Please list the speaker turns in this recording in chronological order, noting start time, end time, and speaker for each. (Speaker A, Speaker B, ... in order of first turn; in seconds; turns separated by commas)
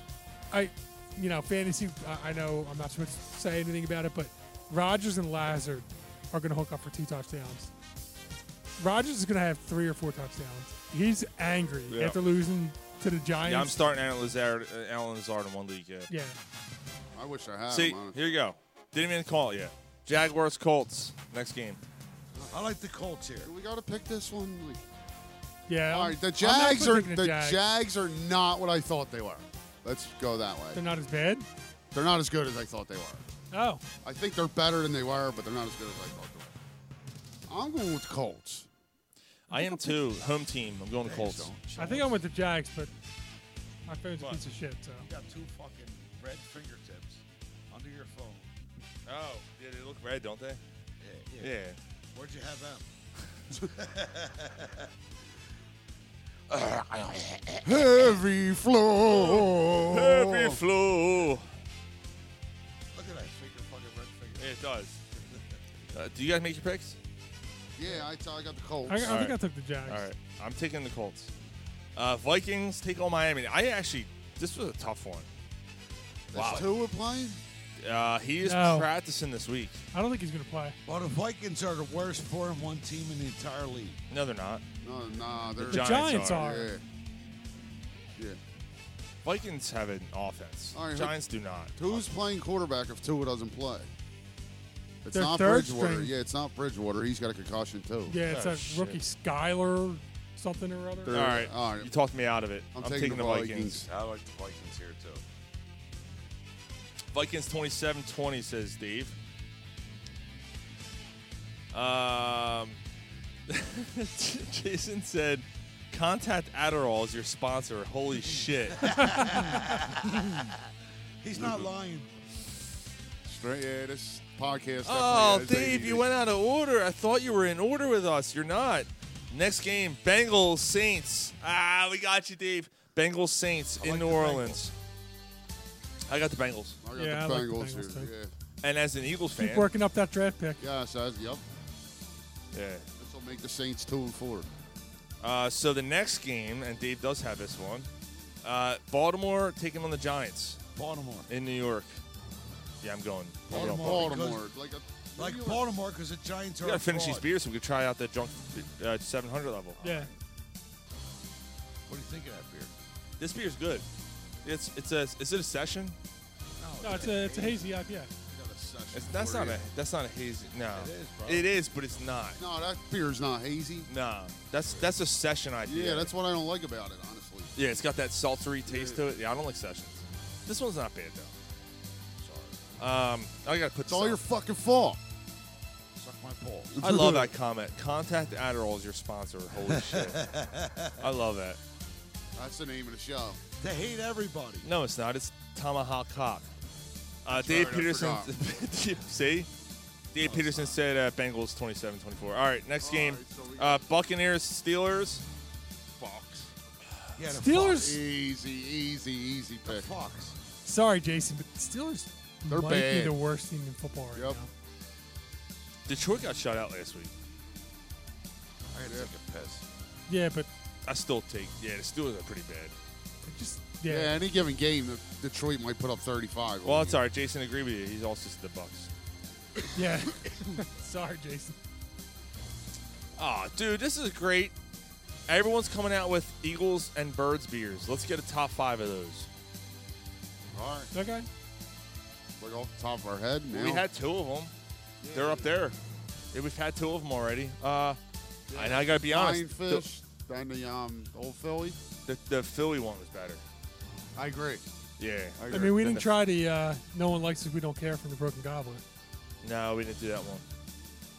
Speaker A: 0.5-7.7, Speaker A: 8.8-13.8, Speaker B: 11.9-12.2, Speaker B: 13.4-16.1, Speaker A: 16.1-16.4, Speaker C: 17.1-18.3, Speaker B: 17.7-21.8, Speaker D: 22.5-23.5, Speaker C: 23.4-24.8, Speaker A: 25.7-27.6, Speaker C: 25.9-30.8, Speaker A: 30.7-31.5, Speaker C: 31.9-33.2, Speaker A: 33.5-33.8, Speaker C: 34.0-36.5, Speaker C: 37.5-38.7, Speaker A: 39.5-40.0, Speaker B: 39.5-41.5, Speaker D: 41.0-42.1, Speaker A: 41.7-42.9, Speaker A: 43.9-45.1, Speaker D: 45.0-48.5, Speaker B: 49.0-50.6, Speaker D: 51.0-51.5, Speaker B: 51.4-51.8, Speaker D: 52.1-52.9, Speaker D: 53.5-54.9, Speaker D: 56.5-57.8, Speaker C: 57.6-60.6, Speaker B: 59.9-61.5, Speaker D: 62.9-64.5, Speaker B: 64.4-65.0, Speaker B: 65.9-67.0, Speaker C: 67.8-69.2, Speaker A: 68.9-70.0, Speaker B: 69.0-71.3, Speaker B: 72.0-75.3, Speaker C: 76.3-77.4, Speaker B: 76.3-76.7, Speaker B: 77.8-79.8, Speaker A: 78.4-78.9, Speaker A: 79.9-80.8, Speaker D: 80.8-84.0, Speaker B: 84.1-84.6, Speaker C: 84.8-86.8, Speaker B: 85.5-86.5, Speaker A: 85.7-86.7, Speaker B: 89.2-92.0, Speaker C: 90.7-91.2, Speaker C: 91.8-93.9, Speaker C: 95.0-98.2, Speaker A: 95.1-96.1, Speaker A: 98.1-101.2, Speaker B: 98.3-99.0, Speaker C: 101.1-101.9, Speaker B: 101.1-103.8, Speaker C: 102.7-103.8, Speaker D: 103.8-105.2, Speaker B: 107.1-109.2, Speaker B: 111.7-112.8, Speaker B: 113.5-119.3, Speaker D: 118.7-120.5, Speaker D: 121.2-122.1, Speaker C: 121.4-121.6, Speaker C: 123.2-126.0, Speaker B: 124.8-134.7, Speaker D: 133.8-134.4, Speaker B: 136.1-136.8, Speaker C: 136.8-138.3, Speaker A: 136.9-138.1, Speaker B: 138.6-139.7, Speaker A: 139.3-140.6, Speaker C: 140.6-141.4, Speaker B: 142.5-142.8, Speaker C: 143.0-144.5, Speaker B: 145.2-147.9, Speaker B: 148.4-150.6, Speaker D: 150.8-151.3, Speaker B: 151.3-152.0, Speaker B: 152.8-154.2, Speaker D: 153.5-154.5, Speaker C: 153.5-155.6, Speaker D: 155.2-157.3, Speaker B: 156.6-159.8, Speaker D: 159.8-160.2, Speaker A: 159.8-160.1, Speaker D: 161.9-162.7, Speaker B: 163.2-163.8, Speaker B: 164.4-165.9, Speaker D: 166.6-167.7, Speaker A: 166.8-168.1, Speaker C: 168.3-169.6, Speaker B: 168.9-172.4, Speaker D: 170.7-171.5, Speaker C: 172.4-173.9, Speaker B: 173.9-176.1, Speaker C: 175.6-177.5, Speaker B: 177.5-181.3, Speaker C: 178.7-179.0, Speaker B: 182.8-184.2, Speaker C: 183.9-185.0, Speaker D: 185.9-186.8, Speaker C: 186.7-187.3, Speaker B: 186.8-190.2, Speaker D: 189.6-191.0, Speaker B: 191.0-191.6, Speaker C: 192.3-193.4, Speaker D: 193.6-194.7, Speaker B: 194.6-196.5, Speaker B: 197.2-199.5, Speaker C: 197.3-198.3, Speaker B: 200.1-205.2, Speaker D: 200.2-200.8, Speaker C: 202.8-203.8, Speaker C: 206.0-206.5, Speaker D: 207.2-208.0, Speaker A: 207.3-208.0, Speaker C: 207.8-209.9, Speaker D: 209.7-210.3, Speaker A: 210.6-214.5, Speaker C: 212.5-213.2, Speaker B: 215.9-217.1, Speaker D: 218.7-219.6, Speaker C: 218.8-219.1, Speaker A: 220.1-220.5, Speaker B: 220.8-222.7, Speaker A: 223.2-224.2, Speaker C: 223.8-227.0, Speaker B: 226.6-228.9, Speaker A: 229.7-231.6, Speaker B: 233.2-234.5, Speaker B: 235.3-239.3, Speaker C: 240.5-240.9, Speaker A: 240.9-241.3, Speaker C: 242.4-243.8, Speaker B: 243.5-244.5, Speaker C: 245.0-245.5, Speaker B: 245.1-245.8, Speaker B: 246.3-248.0, Speaker C: 248.5-251.8, Speaker B: 248.5-249.8, Speaker B: 252.1-253.4, Speaker C: 254.2-254.6, Speaker B: 255.0-256.1, Speaker C: 255.4-256.0, Speaker A: 255.5-258.8, Speaker B: 259.4-260.4